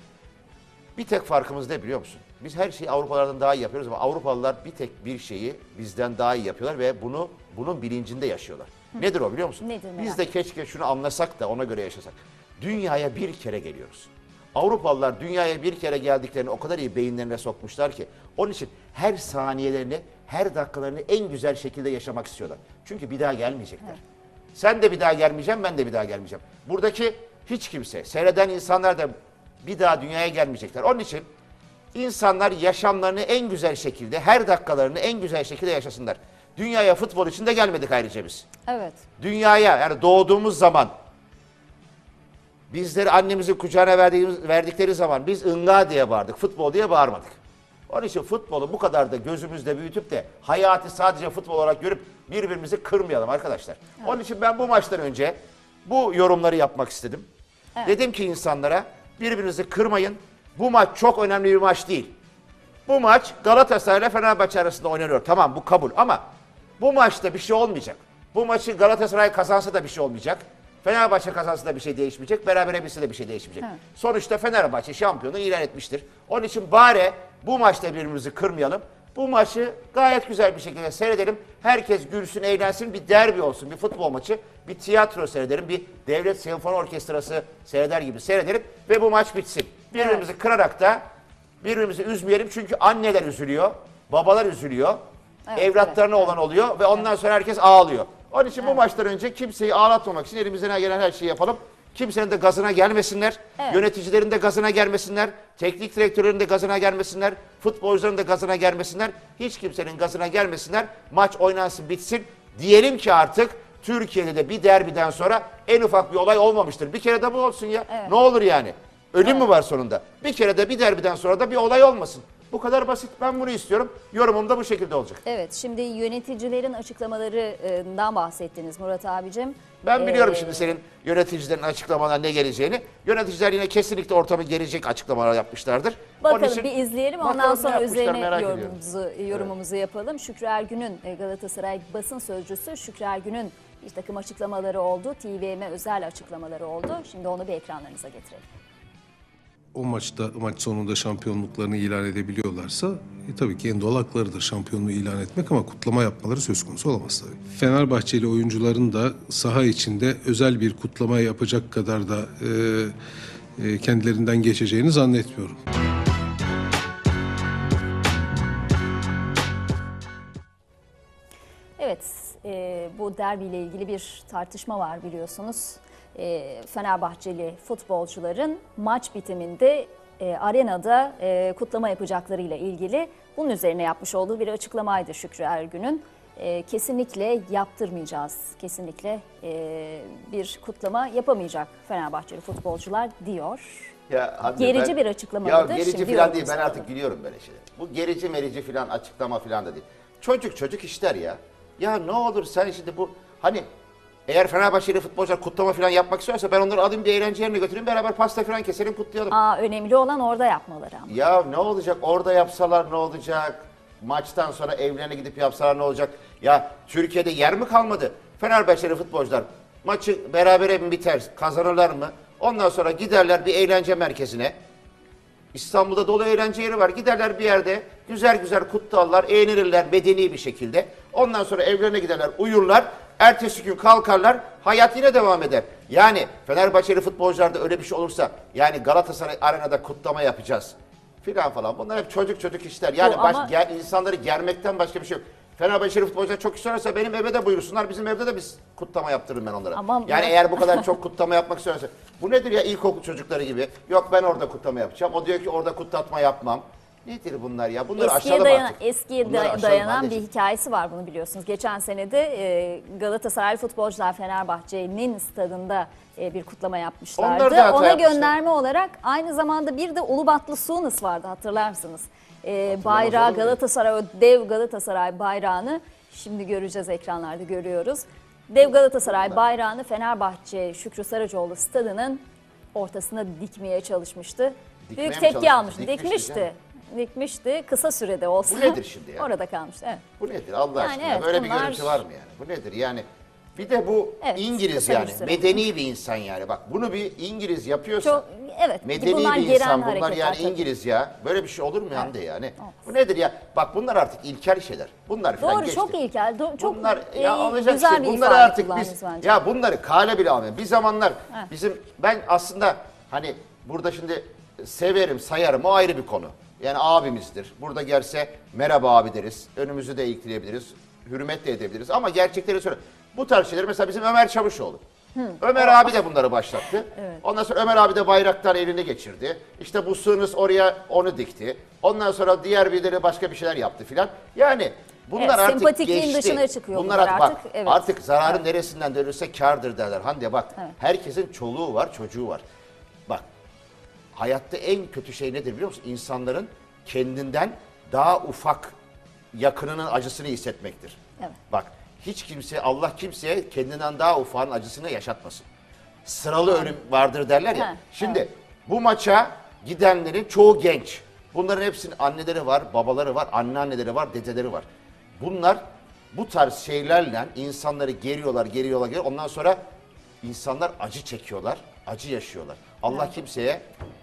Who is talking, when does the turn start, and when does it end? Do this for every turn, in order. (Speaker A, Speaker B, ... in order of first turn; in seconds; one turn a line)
Speaker A: 1.0-24.0
Speaker B: 9.6-10.3
Speaker A: 24.5-31.3
Speaker A: 31.9-38.5
Speaker B: 38.7-39.0
Speaker A: 39.2-40.9
Speaker A: 42.7-47.4
Speaker A: 47.9-57.3
Speaker A: 57.8-62.1
Speaker A: 62.9-66.2
Speaker A: 66.8-91.0
Speaker B: 89.9-90.2
Speaker A: 91.6-95.0
Speaker B: 95.5-96.0
Speaker A: 95.5-125.2
Speaker B: 117.9-118.1
Speaker B: 125.2-130.7
Speaker A: 129.8-136.7
Speaker B: 136.2-148.4
Speaker A: 137.2-138.8
Speaker C: 149.7-163.0
Speaker C: 163.6-165.6
Speaker B: 171.8-193.9
Speaker A: 194.1-203.7
Speaker B: 194.5-196.8
Speaker A: 204.3-209.4
Speaker B: 209.3-211.1
Speaker A: 211.1-224.6
Speaker A: 225.5-260.2
Speaker B: 243.0-243.5
Speaker B: 249.7-250.9
Speaker B: 258.0-282.2
Speaker A: 267.2-268.3
Speaker A: 272.7-273.6
Speaker B: 282.7-290.0
Speaker A: 284.9-286.5
Speaker A: 288.4-289.3
Speaker A: 290.2-298.2
Speaker B: 290.8-292.0
Speaker B: 294.2-295.6
Speaker B: 298.0-300.6
Speaker A: 298.8-305.9
Speaker B: 305.4-309.3
Speaker A: 306.6-324.8
Speaker B: 325.1-325.9
Speaker A: 325.4-342.4
Speaker B: 327.0-327.2
Speaker B: 335.2-338.4
Speaker A: 344.1-348.8
Speaker A: 349.3-351.0
Speaker A: 351.5-355.4
Speaker A: 356.0-364.7
Speaker B: 357.5-358.2
Speaker A: 365.2-369.6
Speaker A: 370.2-373.6